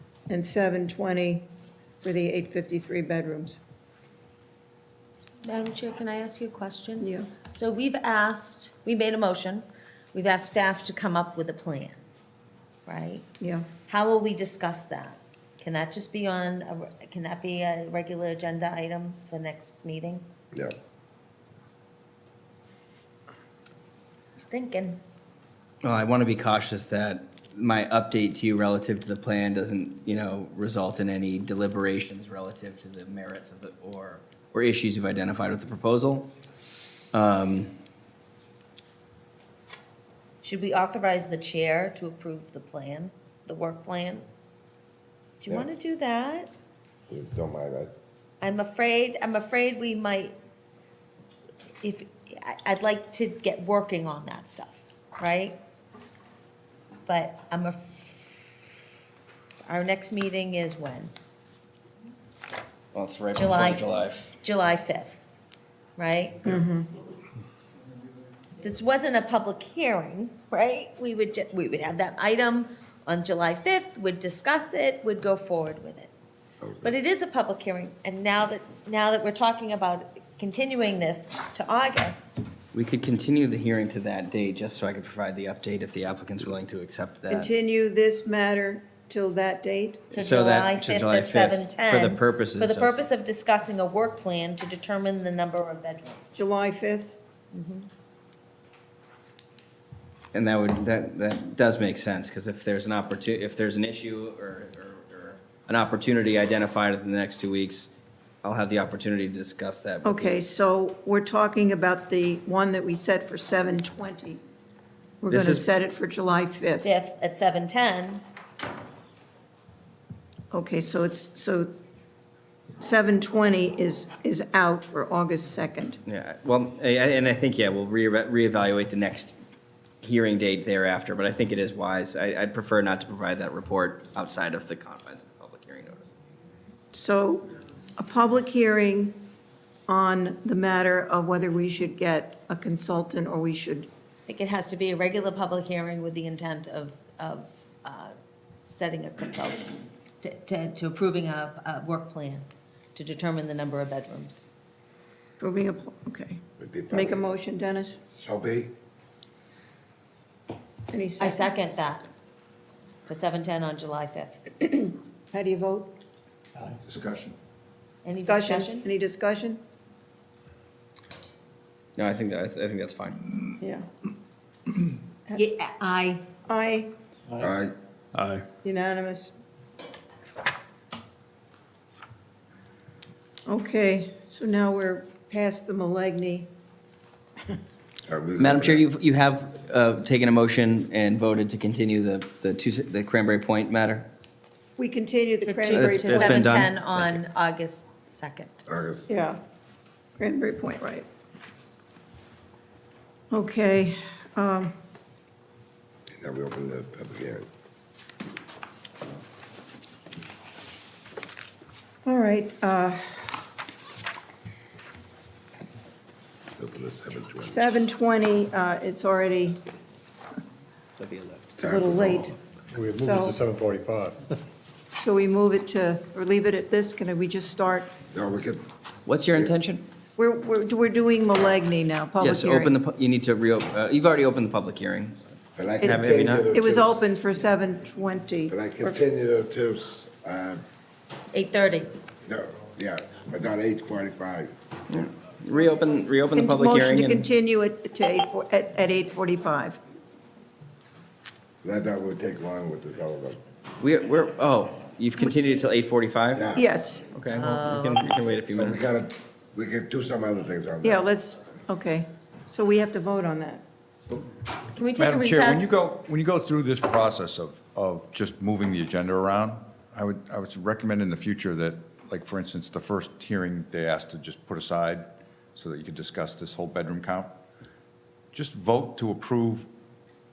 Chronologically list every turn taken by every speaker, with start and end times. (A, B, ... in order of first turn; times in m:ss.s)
0:00.3-0:01.5 A
0:02.0-0:03.6 A
0:05.4-0:12.0 B
0:07.0-0:07.3 A
0:12.9-0:13.2 B
0:13.4-0:13.7 A
0:13.9-0:20.3 B
0:24.4-0:25.0 B
0:25.8-0:36.3 C
0:37.1-0:37.7 C
0:40.4-0:44.3 B
0:45.4-0:46.5 B
0:47.1-0:47.9 D
0:48.4-0:50.4 B
0:51.8-0:55.6 B
0:57.1-0:58.8 B
0:59.7-1:01.1 B
1:02.9-1:04.3 C
1:03.4-1:05.2 B
1:06.0-1:06.5 B
1:06.4-1:06.9 A
1:08.6-1:16.1 B
1:16.6-1:16.9 D
1:16.8-1:22.4 B
1:22.7-1:27.5 C
1:27.3-1:30.1 A
1:30.1-1:32.9 C
1:30.1-1:36.4 B
1:36.4-1:37.2 A
1:37.5-1:37.9 B
1:40.3-1:47.9 C
1:48.4-1:50.4 C
1:50.0-1:54.4 A
1:55.2-1:57.0 A
1:55.3-1:55.7 C
1:56.8-1:58.2 B
2:00.5-2:01.7 A
2:02.8-2:06.0 A
2:06.1-2:09.4 C
2:10.0-2:16.1 C
2:16.9-2:19.2 A
2:19.9-2:23.9 A
2:24.3-2:34.4 B
2:35.4-2:38.0 A
2:36.6-2:37.2 D
2:38.1-2:38.7 D
2:40.9-2:41.5 A
2:41.2-2:42.1 B
2:43.1-2:44.4 B
2:45.3-2:45.9 A
2:46.8-2:47.4 E
2:48.0-2:48.9 B
2:48.1-2:49.6 A
2:52.0-2:53.3 C
2:53.6-2:53.9 A
2:55.4-2:56.2 B
2:56.5-2:56.9 A
2:57.4-2:57.7 D
2:58.2-2:58.4 F
2:58.6-2:59.3 A
3:03.5-3:06.5 A
3:08.1-3:08.8 D
3:08.4-3:14.1 C
3:14.8-3:16.5 A
3:15.5-3:18.6 B
3:15.7-3:17.2 C
3:18.7-3:19.1 D
3:19.1-3:19.4 A
3:20.2-3:21.1 A
3:23.3-3:24.7 A
3:26.2-3:27.5 D
3:32.0-3:33.3 A
3:36.6-3:37.6 D
3:37.5-3:39.6 A
3:41.0-3:41.5 C
3:41.6-3:42.3 D
3:41.6-3:42.4 A
3:42.7-3:44.3 F
3:43.0-3:43.4 A
3:45.0-3:47.9 A
3:48.1-3:48.6 D
3:49.1-3:49.9 C
3:50.2-3:52.8 A
3:52.2-3:55.2 C
3:55.6-3:57.0 D
3:55.8-3:56.6 C
3:55.8-3:59.0 A
3:58.5-4:00.6 D
4:01.3-4:01.9 B
4:02.3-4:04.5 D
4:04.9-4:07.3 C
4:06.3-4:09.8 A
4:11.6-4:13.4 D
4:13.8-4:16.5 C
4:16.4-4:16.7 D
4:16.6-4:17.1 A
4:17.1-4:18.8 C
4:17.3-4:18.1 B
4:18.5-4:21.0 D
4:20.8-4:23.6 A
4:24.7-4:25.8 B
4:25.0-4:37.3 E
4:38.3-4:39.7 E